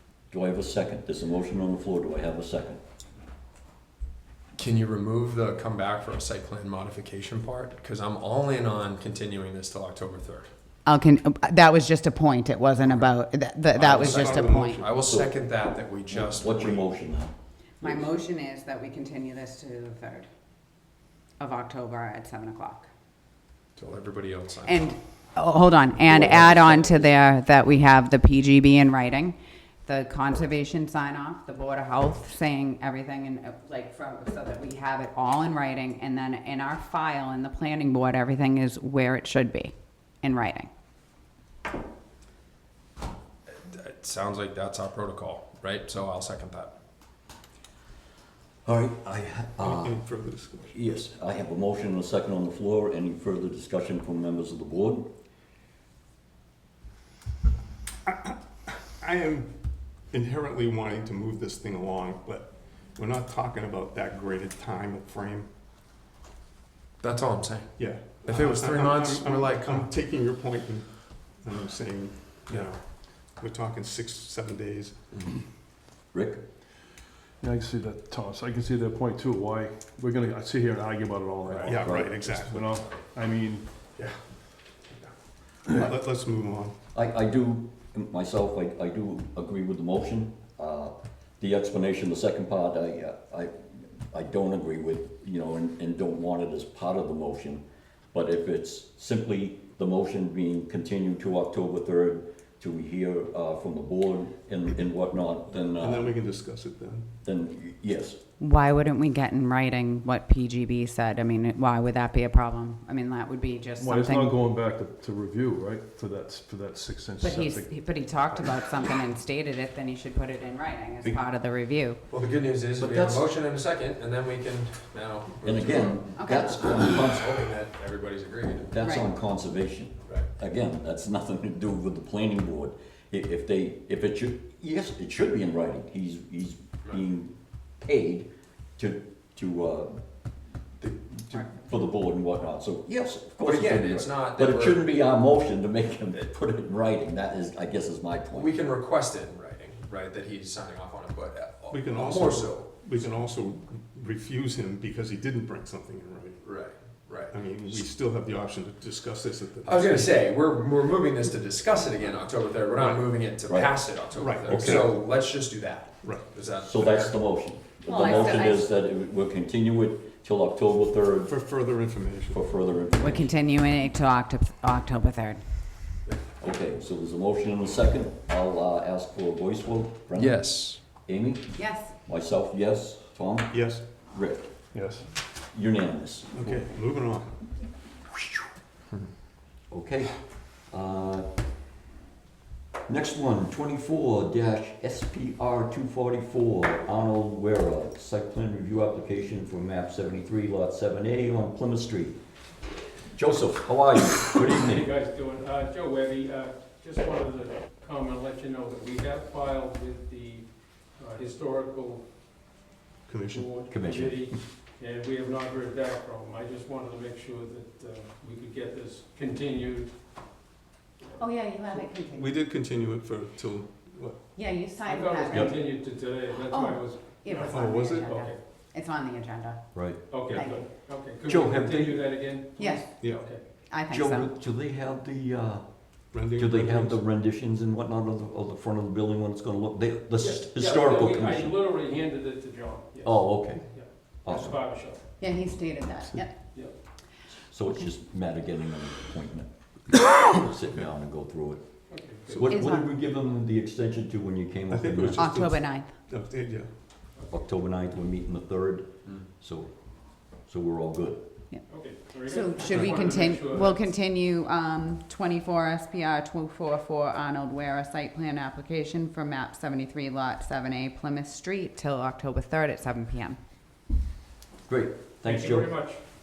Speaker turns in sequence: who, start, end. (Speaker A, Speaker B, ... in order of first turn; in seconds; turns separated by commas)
Speaker A: 0.3-2.8, Speaker B: 4.5-10.5, Speaker C: 10.8-14.8, Speaker D: 13.8-14.9, Speaker B: 13.8-16.9, Speaker A: 15.0-15.3, Speaker A: 16.1-18.1, Speaker C: 17.8-20.3, Speaker C: 21.4-22.9, Speaker B: 23.8-24.8, Speaker C: 24.7-40.7, Speaker A: 26.1-27.1, Speaker B: 43.5-46.7, Speaker A: 48.6-50.0, Speaker D: 49.6-50.8, Speaker A: 50.7-55.1, Speaker D: 58.0-59.5, Speaker D: 60.1-65.5, Speaker B: 67.0-69.9, Speaker D: 67.8-75.2, Speaker A: 76.1-76.4, Speaker E: 77.4-83.8, Speaker B: 81.4-81.7, Speaker D: 81.6-82.7, Speaker A: 81.8-82.1, Speaker B: 82.7-83.0, Speaker D: 83.9-85.1, Speaker D: 85.6-86.8, Speaker A: 86.9-106.1, Speaker D: 105.6-107.1, Speaker A: 107.2-108.2, Speaker C: 108.4-114.4, Speaker E: 113.8-118.5, Speaker C: 117.2-122.0, Speaker B: 122.1-128.8, Speaker A: 122.8-123.2, Speaker A: 125.4-127.3, Speaker C: 126.2-126.6, Speaker A: 128.7-140.0, Speaker C: 128.8-129.1, Speaker A: 140.8-148.5, Speaker B: 143.4-144.9, Speaker B: 148.3-152.7, Speaker D: 151.7-156.5, Speaker B: 156.4-157.8, Speaker D: 157.3-160.2, Speaker B: 159.7-167.2, Speaker A: 163.5-164.9, Speaker D: 164.2-165.0, Speaker D: 166.0-166.4, Speaker A: 166.6-171.3, Speaker C: 167.8-168.7, Speaker D: 171.3-172.4, Speaker A: 172.3-173.3, Speaker C: 173.0-175.4, Speaker A: 176.4-184.5, Speaker B: 180.2-180.8, Speaker C: 181.6-181.9, Speaker D: 183.5-183.8, Speaker E: 184.7-185.1, Speaker A: 185.5-186.7, Speaker D: 186.3-187.4, Speaker A: 189.7-191.3, Speaker A: 192.9-202.2, Speaker A: 203.1-204.9, Speaker F: 204.4-212.1, Speaker D: 213.1-213.7, Speaker F: 213.3-219.9, Speaker A: 213.7-214.3, Speaker F: 221.0-221.5, Speaker C: 221.2-222.3, Speaker D: 221.7-224.2, Speaker C: 224.3-225.7, Speaker F: 224.8-228.4, Speaker C: 226.4-230.6, Speaker D: 227.5-228.0, Speaker A: 229.7-230.7, Speaker F: 230.1-233.4, Speaker A: 231.2-232.3, Speaker C: 232.6-234.3, Speaker D: 233.0-233.2, Speaker A: 233.9-241.6, Speaker D: 236.1-237.0, Speaker F: 240.2-245.0, Speaker A: 243.0-244.6, Speaker C: 245.2-246.3, Speaker A: 247.5-251.6, Speaker F: 251.9-252.4, Speaker D: 252.3-252.6, Speaker A: 252.3-255.3, Speaker C: 252.5-252.9, Speaker D: 254.7-256.7, Speaker C: 255.2-255.9, Speaker A: 257.3-259.7, Speaker A: 260.3-261.2, Speaker C: 261.5-273.4, Speaker F: 261.7-263.9, Speaker A: 274.7-275.7, Speaker F: 275.2-276.0